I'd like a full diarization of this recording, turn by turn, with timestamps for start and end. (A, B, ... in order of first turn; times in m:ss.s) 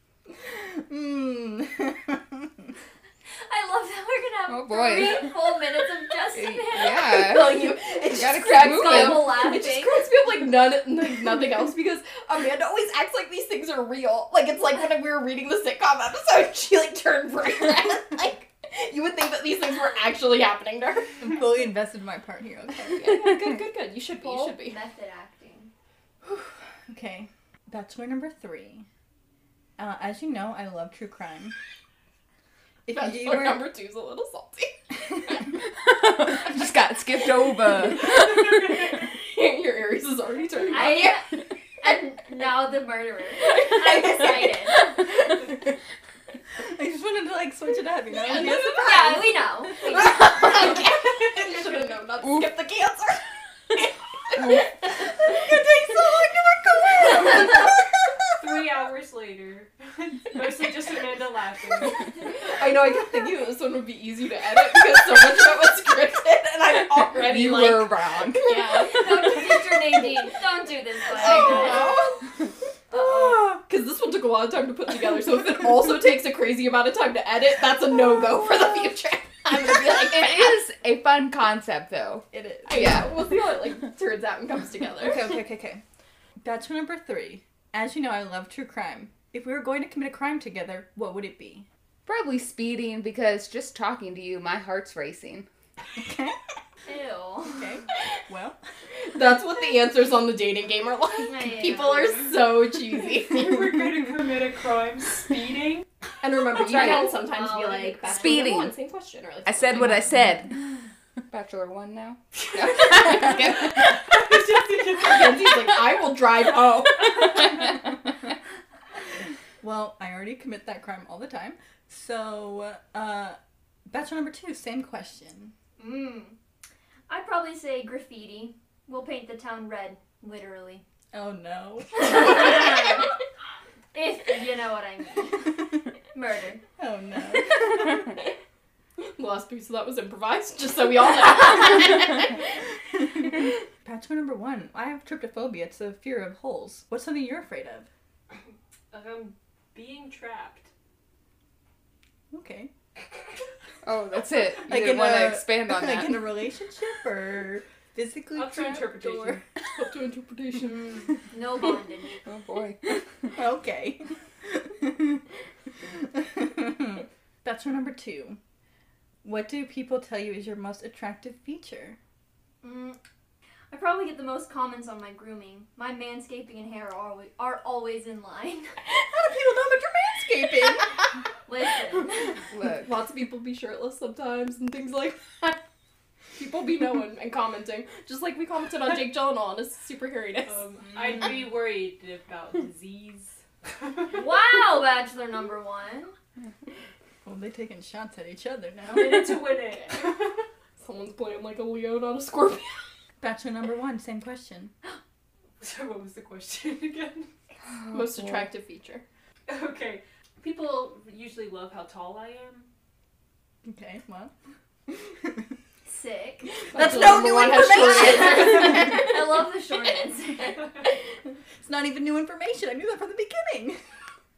0:00.5-0:02.7 A
0:03.4-0:07.3 B
0:04.5-0:05.6 C
0:06.3-0:09.4 C
0:07.1-0:21.2 D
0:08.4-0:10.1 B
0:21.2-0:23.1 A
0:22.9-0:24.8 D
0:23.1-0:23.5 C
0:24.2-0:25.7 B
0:26.2-0:28.9 A
0:29.8-0:31.5 A
0:32.8-0:33.6 A
0:32.9-0:34.8 D
0:35.7-0:39.0 C
0:38.1-0:41.2 D
0:40.7-0:41.3 B
0:41.8-0:45.0 B
0:43.5-0:44.6 D
0:46.6-0:49.5 A
0:48.3-0:49.2 D
0:48.4-0:50.5 B
0:49.8-0:57.9 D
0:54.4-0:54.7 C
0:58.4-1:02.1 E
1:02.4-1:09.8 D
1:07.0-1:08.9 C
1:08.8-1:11.9 B
1:11.1-1:12.2 D
1:12.9-1:20.6 D
1:19.5-1:23.2 C
1:22.3-1:23.0 A
1:22.7-1:25.4 D
1:25.0-1:25.8 A
1:26.4-1:31.6 A
1:32.1-1:35.4 C
1:36.0-1:36.4 A
1:36.9-1:37.6 B
1:37.5-1:38.6 A
1:39.1-1:43.5 D
1:41.2-1:42.3 B
1:43.2-1:45.8 E
1:46.2-1:50.2 D
1:46.6-1:47.2 C
1:46.6-1:48.4 B
1:48.0-1:48.7 C
1:49.4-1:50.5 C
1:51.3-1:54.0 C
1:52.6-1:55.4 E
1:55.0-1:57.6 D
1:59.6-2:05.5 A
2:05.8-2:06.4 B
2:07.1-2:10.8 B
2:11.1-2:12.4 A
2:12.1-2:13.1 B
2:13.9-2:15.6 B
2:16.1-2:16.6 B
2:16.8-2:18.0 A
2:19.0-2:22.4 D
2:23.0-2:27.9 A
2:28.9-2:30.7 E
2:32.3-2:32.7 A
2:33.8-2:36.3 C
2:34.6-2:39.4 A
2:38.3-2:39.4 E
2:39.8-2:41.2 D
2:40.6-2:42.2 B
2:42.2-2:43.4 C
2:43.3-2:45.2 A
2:45.8-2:48.4 A
2:49.2-2:52.0 A
2:52.6-2:53.0 B
2:53.7-2:58.8 B
2:58.9-3:00.9 A
3:01.5-3:02.4 B
3:02.5-3:02.9 C
3:02.8-3:05.6 D
3:06.4-3:10.6 D
3:10.5-3:13.4 E
3:14.1-3:16.1 B
3:17.2-3:19.4 A
3:18.9-3:20.4 E
3:20.8-3:22.8 D
3:23.2-3:24.7 A
3:25.6-3:27.3 E
3:27.7-3:28.5 C
3:27.9-3:29.0 D
3:29.5-3:32.7 E
3:33.6-3:34.3 A
3:35.8-3:36.5 B
3:36.7-3:39.1 D
3:36.7-3:39.0 A
3:37.8-3:40.6 B
3:41.6-3:43.8 A